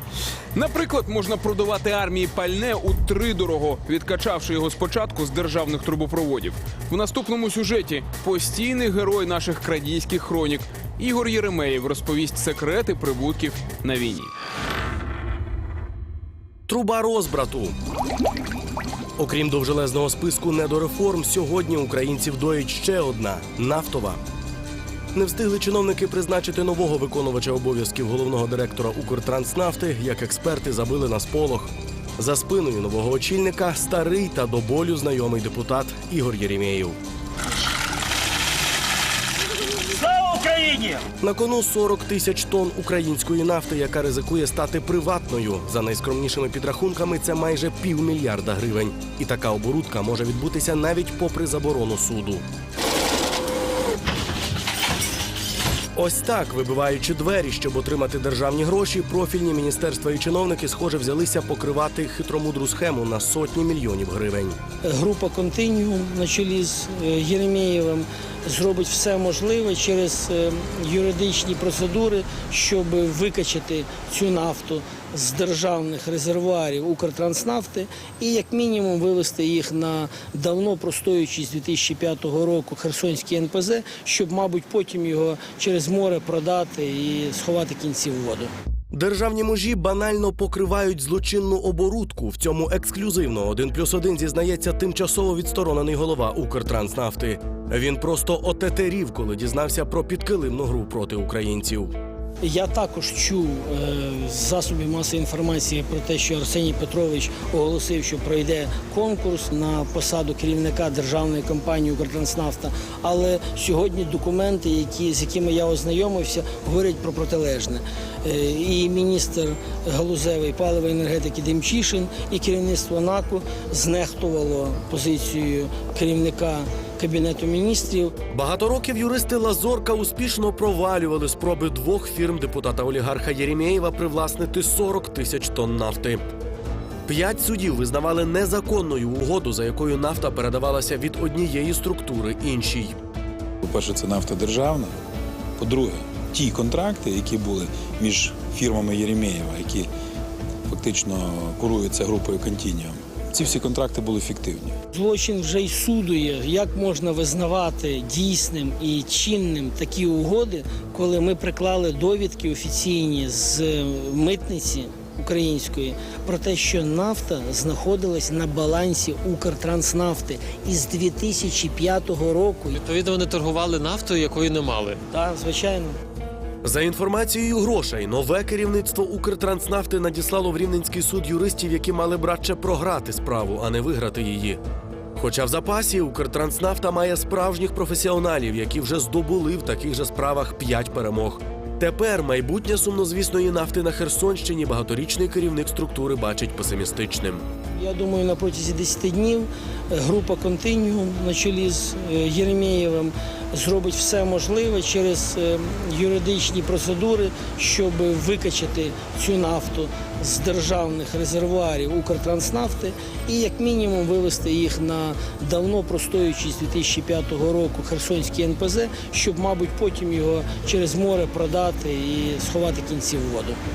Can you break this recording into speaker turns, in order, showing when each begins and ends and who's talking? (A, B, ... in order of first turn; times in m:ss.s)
0:00.5-0:14.3 A
0:16.7-0:17.8 B
0:19.2-0:24.2 B
0:25.1-0:37.0 B
0:40.2-0:52.4 B
0:55.9-1:04.6 B
1:04.8-1:28.5 C
1:28.9-1:41.9 B
1:42.4-2:08.2 C
2:08.3-2:16.2 B
2:17.0-2:23.0 B
2:23.6-2:24.9 D
2:25.6-2:29.9 D
2:30.6-2:34.7 D
2:34.9-2:52.8 C
2:52.8-2:55.0 E
2:55.1-2:56.0 C
2:56.6-3:04.6 B
3:05.2-3:17.4 B
3:17.7-3:43.6 C